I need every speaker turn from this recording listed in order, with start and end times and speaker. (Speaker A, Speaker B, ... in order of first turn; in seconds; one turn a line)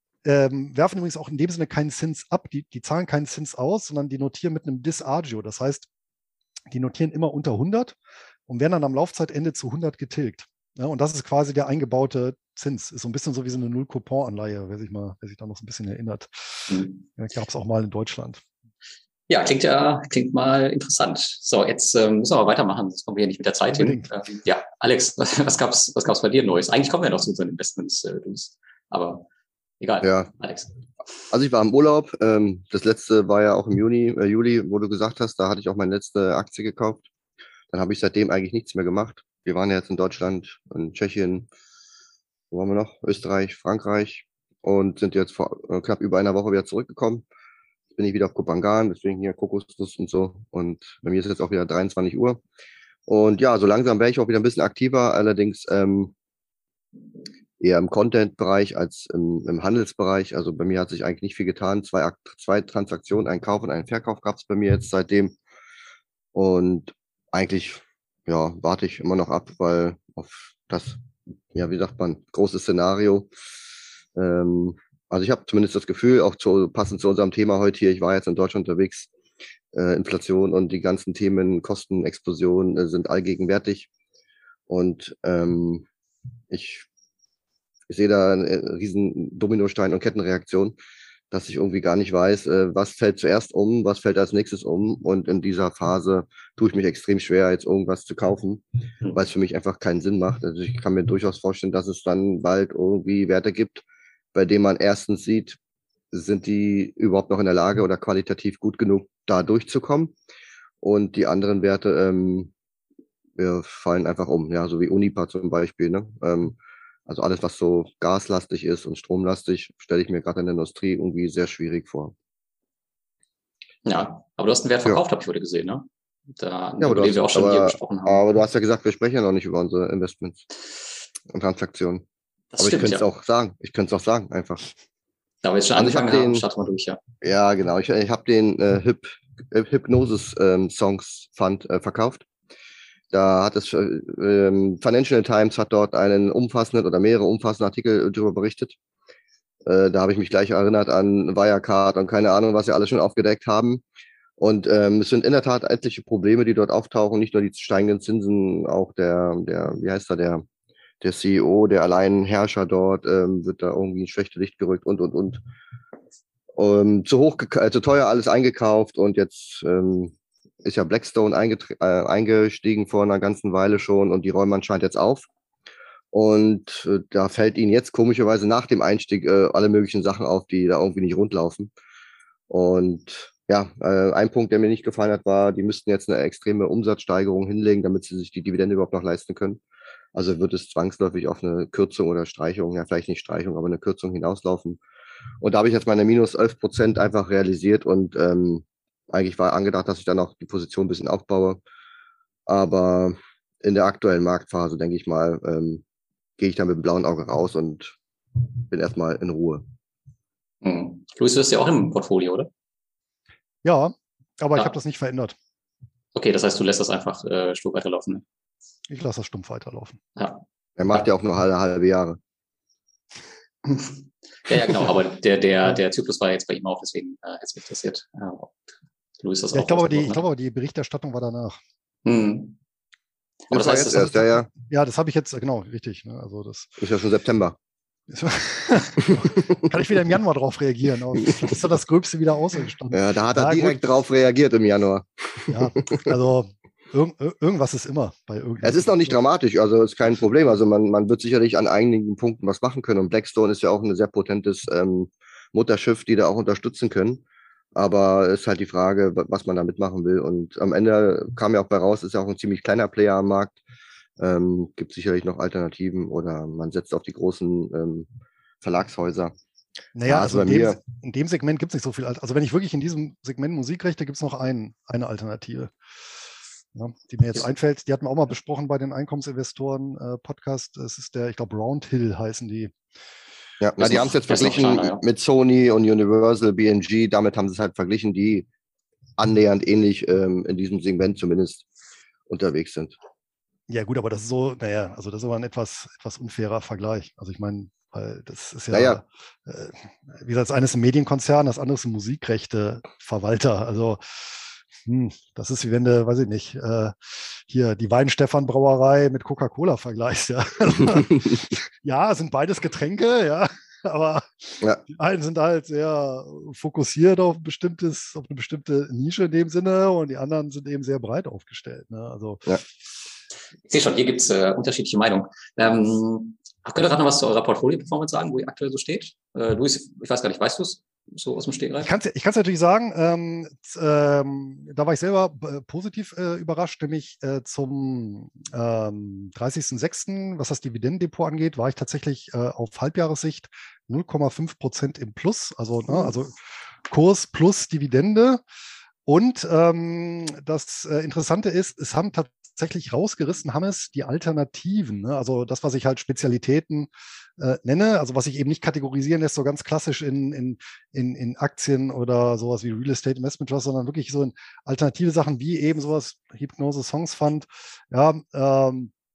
Speaker A: 0.2-5.9
Speaker A: 6.7-8.0
Speaker A: 8.5-18.4
Speaker B: 19.3-29.2
Speaker A: 23.7-24.0
Speaker B: 29.8-30.7
Speaker C: 30.0-30.3
Speaker C: 31.3-37.1
Speaker C: 37.7-41.5
Speaker C: 42.5-47.2
Speaker C: 47.9-52.4
Speaker C: 53.1-56.1
Speaker C: 57.6-65.3
Speaker C: 66.3-71.0
Speaker C: 71.5-73.3
Speaker C: 74.1-79.1
Speaker C: 79.7-83.9
Speaker C: 84.7-85.8
Speaker C: 86.5-86.8
Speaker C: 87.9-90.7
Speaker C: 91.3-105.6
Speaker C: 106.1-110.1
Speaker C: 110.8-112.5
Speaker C: 113.4-116.5
Speaker C: 117.1-122.1
Speaker B: 123.8-125.9
Speaker B: 126.4-128.2
Speaker C: 126.8-130.4
Speaker C: 131.3-132.0
Speaker B: 132.5-133.0
Speaker C: 132.6-134.7
Speaker B: 135.4-137.0
Speaker C: 135.7-136.4
Speaker C: 137.2-142.2
Speaker C: 143.1-148.7
Speaker C: 149.6-153.8
Speaker C: 154.4-160.4
Speaker C: 161.0-165.4
Speaker C: 166.5-175.2
Speaker C: 176.1-181.7
Speaker C: 182.5-189.6
Speaker C: 190.1-194.8
Speaker C: 195.4-201.6
Speaker C: 202.5-205.8
Speaker C: 206.4-207.9
Speaker C: 208.6-209.6
Speaker B: 210.6-212.5
Speaker A: 213.6-215.3
Speaker B: 216.1-218.2
Speaker A: 218.9-220.0
Speaker B: 220.2-221.0
Speaker C: 220.8-222.2
Speaker B: 223.7-228.6
Speaker B: 229.2-230.2
Speaker A: 229.5-231.6
Speaker B: 232.0-232.6
Speaker C: 233.5-234.5
Speaker B: 233.5-234.2
Speaker A: 234.5-236.8
Speaker C: 236.8-237.6
Speaker A: 238.1-243.8
Speaker C: 239.2-239.6
Speaker C: 242.9-246.1
Speaker A: 245.5-249.1
Speaker C: 248.6-257.2
Speaker C: 257.7-263.6
Speaker C: 264.2-268.1
Speaker C: 268.6-269.3
Speaker A: 269.9-275.7
Speaker C: 270.1-270.8
Speaker A: 276.7-282.7
Speaker C: 283.6-288.4
Speaker B: 283.8-285.0
Speaker C: 289.2-291.6
Speaker C: 292.3-292.9
Speaker A: 293.7-322.4
Speaker C: 298.7-299.0
Speaker B: 323.7-331.9
Speaker A: 331.8-346.3
Speaker A: 346.9-348.4
Speaker A: 349.1-368.9